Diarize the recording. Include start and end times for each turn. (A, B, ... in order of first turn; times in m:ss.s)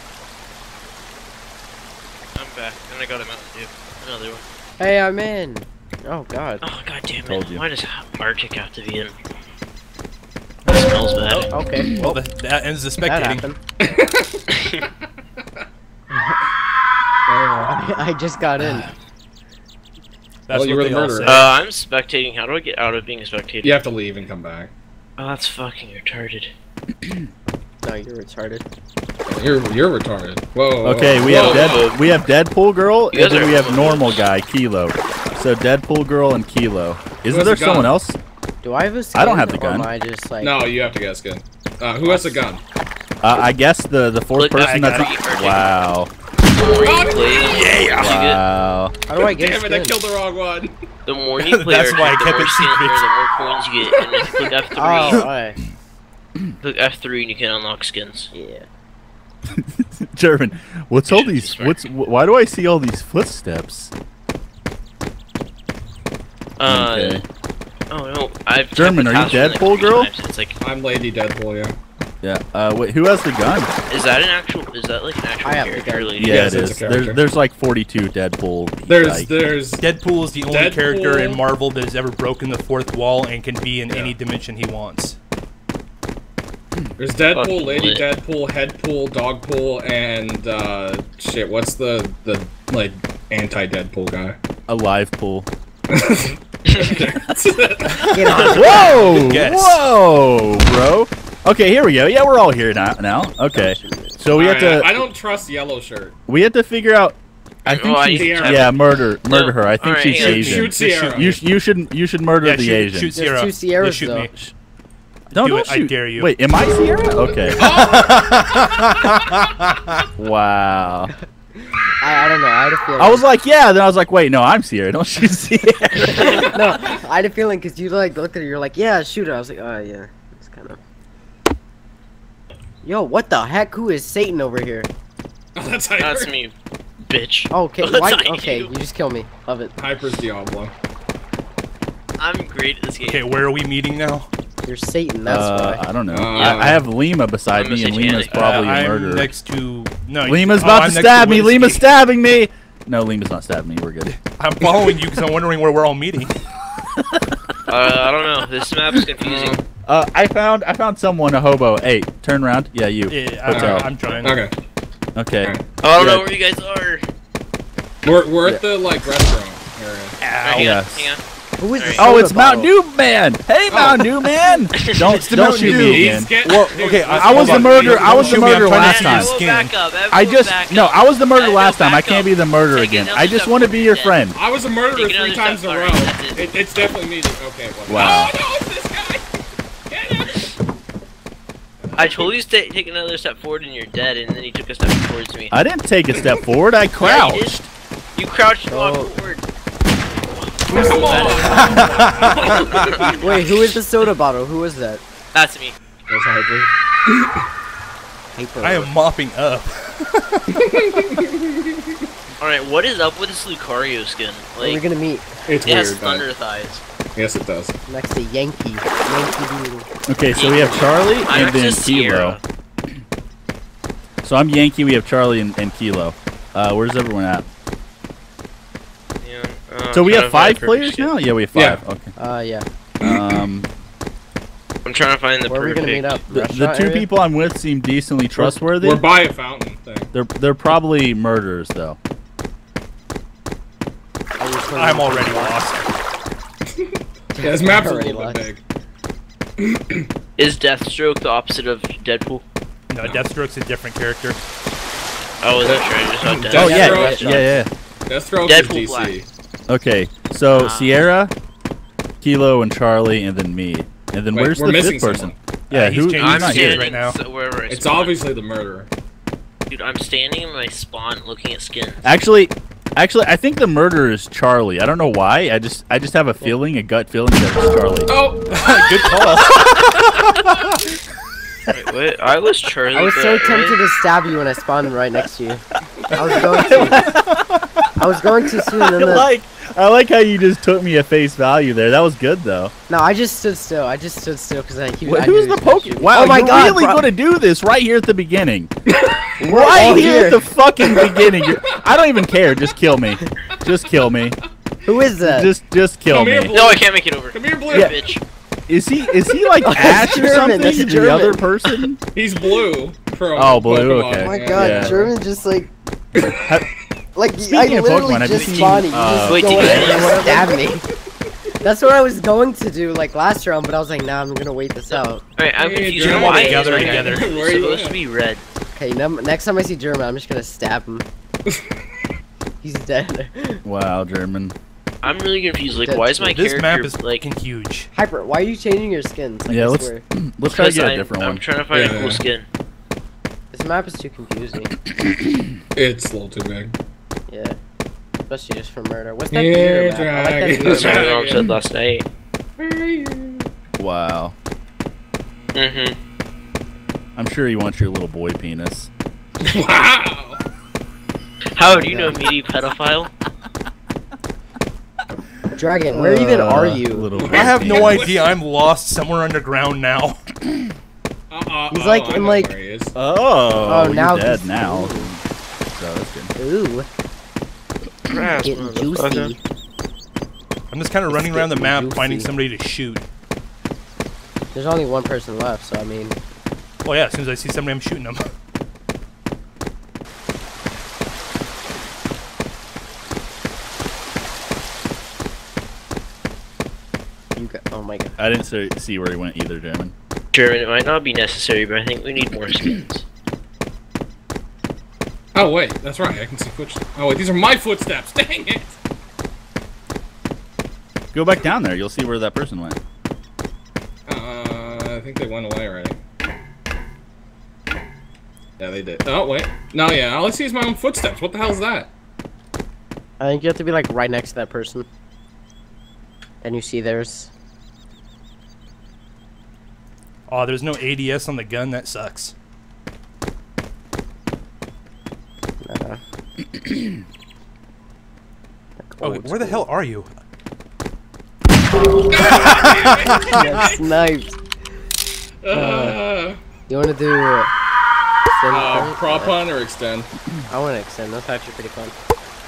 0:02.3-0:04.4 A
0:04.8-0:06.6 B
0:06.6-0:09.1 A
0:07.2-0:07.6 C
0:10.7-0:11.5 A
0:10.7-0:13.5 D
0:11.5-0:12.2 B
0:13.0-0:13.6 B
0:13.8-0:14.4 E
0:14.5-0:14.8 A
0:16.1-0:16.4 B
0:17.3-0:17.7 E
0:17.7-0:18.9 B
0:20.5-0:21.5 D
0:20.5-0:21.4 E
0:21.2-0:23.8 A
0:23.6-0:24.7 E
0:25.2-0:26.5 A
0:27.8-0:28.6 B
0:29.3-0:31.8 E
0:30.8-0:38.2 C
0:31.3-0:32.0 A
0:33.1-0:34.2 A
0:37.3-0:37.9 E
0:38.6-0:40.6 B
0:39.1-0:39.9 C
0:40.4-0:42.6 E
0:42.0-0:42.4 B
0:43.2-0:46.1 C
0:44.4-0:45.7 A
0:44.7-0:45.0 D
0:46.5-0:48.4 A
0:46.8-0:47.8 E
0:47.5-0:48.1 D
0:48.0-0:48.9 C
0:49.1-0:50.0 B
0:49.2-0:50.7 E
0:51.0-0:55.2 A
0:51.4-0:53.1 D
0:54.8-0:55.6 B
0:56.6-0:58.3 A
0:58.3-0:58.6 B
0:59.6-1:03.9 C
1:01.1-1:01.8 A
1:06.6-1:07.2 A
1:06.7-1:07.2 C
1:07.9-1:10.6 A
1:08.8-1:10.1 C
1:10.6-1:11.8 E
1:12.2-1:13.7 C
1:13.9-1:16.4 A
1:15.4-1:16.3 B
1:16.2-1:19.3 C
1:16.2-1:17.2 E
1:18.9-1:19.8 E
1:19.8-1:25.2 D
1:20.5-1:21.4 E
1:23.9-1:24.1 E
1:27.0-1:34.4 E
1:27.3-1:28.1 A
1:34.7-1:35.5 C
1:35.9-1:38.2 E
1:38.1-1:39.2 B
1:38.3-1:39.0 A
1:38.5-1:44.9 C
1:39.1-1:39.8 D
1:43.5-1:44.2 B
1:44.3-1:46.1 E
1:46.3-1:53.1 C
1:47.6-1:48.7 A
1:48.1-1:48.7 E
1:49.3-1:50.7 A
1:50.1-1:51.4 E
1:52.4-1:54.5 D
1:53.1-1:54.3 B
1:55.3-1:56.3 D
1:55.3-1:57.7 C
1:57.5-1:58.5 E
2:00.2-2:01.1 C
2:01.6-2:03.3 B
2:03.0-2:06.5 C
2:06.1-2:10.8 B
2:12.8-2:14.9 B
2:15.5-2:16.3 E
2:16.0-2:18.7 A
2:17.5-2:19.7 B
2:19.8-2:20.7 E
2:22.2-2:23.2 A
2:23.1-2:24.3 D
2:24.6-2:25.8 B
2:25.2-2:29.3 C
2:26.1-2:26.8 E
2:26.3-2:26.7 A
2:27.5-2:28.7 A
2:28.3-2:31.8 D
2:30.2-2:34.1 C
2:34.1-2:36.3 D
2:37.7-2:39.6 A
2:39.2-2:39.6 E
2:39.8-2:43.9 C
2:43.1-2:44.4 D
2:43.5-2:44.5 E
2:45.2-2:46.3 C
2:45.8-2:47.0 A
2:48.0-2:50.2 E
2:50.2-2:50.8 D
2:50.4-2:51.2 A
2:50.5-2:51.1 C
2:51.6-2:52.7 B
2:51.8-2:52.0 A
2:52.0-2:56.4 C
2:53.7-2:54.2 E
2:54.8-2:55.3 A
2:55.0-2:59.7 D
2:55.7-2:58.6 E
2:57.1-2:59.4 C
2:58.5-3:04.2 A
3:00.1-3:04.4 C
3:04.3-3:09.3 E
3:04.9-3:06.5 A
3:07.9-3:08.3 C
3:09.9-3:10.4 E
3:11.8-3:12.4 E
3:12.0-3:15.5 A
3:15.5-3:17.7 C
3:17.0-3:17.6 A
3:18.2-3:19.4 A
3:18.7-3:19.2 B
3:20.2-3:23.8 A
3:20.7-3:22.9 E
3:22.9-3:25.0 B
3:25.3-3:25.8 A
3:26.1-3:27.4 E
3:28.3-3:28.9 B
3:28.6-3:30.5 D
3:30.6-3:31.8 E
3:32.4-3:34.8 A
3:34.6-3:35.4 B
3:35.5-3:36.3 E
3:35.6-3:36.8 A
3:37.2-3:37.7 E
3:37.9-3:39.9 B
3:40.1-3:42.4 C
3:40.3-3:42.4 A
3:44.2-3:47.5 C
3:49.2-3:51.1 A
3:49.9-3:52.1 C
3:51.5-3:51.8 E
3:52.2-3:52.6 B
3:53.0-3:53.5 E
3:53.0-3:53.7 C
3:54.8-3:56.2 A
3:55.5-3:57.1 B
3:56.3-3:59.0 C
3:58.4-4:00.1 E
4:00.1-4:02.0 C
4:04.4-4:05.6 B
4:04.7-4:05.9 D
4:06.7-4:08.6 E
4:07.3-4:08.5 B
4:09.6-4:10.1 E
4:10.4-4:12.4 A
4:12.9-4:14.4 D
4:15.4-4:17.5 A
4:15.6-4:19.3 E
4:16.5-4:17.4 B
4:16.6-4:17.7 C
4:18.4-4:19.2 A
4:19.7-4:21.3 C
4:20.5-4:21.1 A
4:22.2-4:26.9 C
4:24.3-4:25.4 E
4:25.7-4:27.2 D
4:26.2-4:28.2 A
4:27.7-4:28.9 E
4:29.7-4:32.0 A
4:32.0-4:38.1 C
4:38.1-4:39.6 E
4:38.5-4:39.5 D
4:40.3-4:40.6 C
4:41.7-4:43.8 A
4:42.9-4:47.1 B
4:46.5-4:47.7 C
4:48.0-4:49.3 B
4:48.8-4:52.7 C
4:52.9-4:57.1 B
4:55.0-4:58.7 C
4:58.9-4:59.9 E
4:59.4-5:04.4 C
4:59.4-5:00.4 B
5:00.9-5:01.5 E
5:04.8-5:05.5 B
5:05.2-5:06.5 C
5:06.1-5:08.2 E
5:06.5-5:08.2 A
5:08.7-5:12.0 C
5:09.6-5:11.4 B
5:12.1-5:15.1 E
5:13.3-5:15.0 C
5:14.2-5:15.7 B
5:16.2-5:16.6 E
5:16.3-5:16.7 C
5:17.2-5:20.9 B
5:17.4-5:20.4 C
5:18.3-5:20.2 A
5:21.6-5:25.2 B
5:24.9-5:28.4 A
5:25.6-5:28.0 E
5:26.0-5:27.3 D
5:28.7-5:31.0 B
5:31.4-5:31.7 E
5:32.6-5:33.6 B
5:33.6-5:34.5 C
5:35.0-5:37.2 A
5:35.7-5:36.4 B
5:36.3-5:37.9 D
5:37.9-5:40.0 B
5:39.5-5:41.4 C
5:40.4-5:42.4 A
5:41.7-5:42.2 E
5:43.5-5:44.7 B
5:44.9-5:45.5 C
5:45.7-5:46.7 E
5:47.3-5:47.6 B
5:48.3-5:51.2 B
5:49.3-5:51.5 E
5:50.6-5:52.0 A
5:52.6-5:53.5 E
5:53.8-5:54.3 C
5:55.5-5:56.0 A
5:57.2-5:58.9 C
5:59.4-6:00.4 E
6:01.6-6:03.1 A
6:01.6-6:02.2 B
6:05.6-6:07.1 B
6:05.9-6:08.1 C
6:07.2-6:08.4 E
6:07.3-6:10.2 D
6:11.3-6:12.9 E
6:11.7-6:12.5 B
6:12.9-6:16.3 C
6:13.6-6:15.1 B
6:16.3-6:16.9 B
6:18.1-6:19.3 A
6:18.4-6:19.4 B
6:20.7-6:23.0 D
6:21.1-6:22.3 B
6:24.5-6:26.2 B
6:26.8-6:28.2 D
6:37.4-6:38.2 B
6:38.2-6:39.9 C
6:40.3-6:43.0 A
6:45.3-6:48.8 E
6:51.1-6:52.8 C
6:54.1-6:56.0 E
6:58.6-7:01.9 E
7:03.2-7:04.9 B
7:06.4-7:07.3 B
7:10.3-7:12.3 D
7:15.6-7:16.0 B
7:18.8-7:19.6 B
7:19.0-7:20.1 D
7:22.1-7:23.8 E
7:23.2-7:24.4 B
7:25.4-7:26.4 E
7:25.5-7:26.0 B
7:26.7-7:27.5 B
7:28.3-7:29.3 B
7:28.5-7:30.1 E
7:30.5-7:31.9 B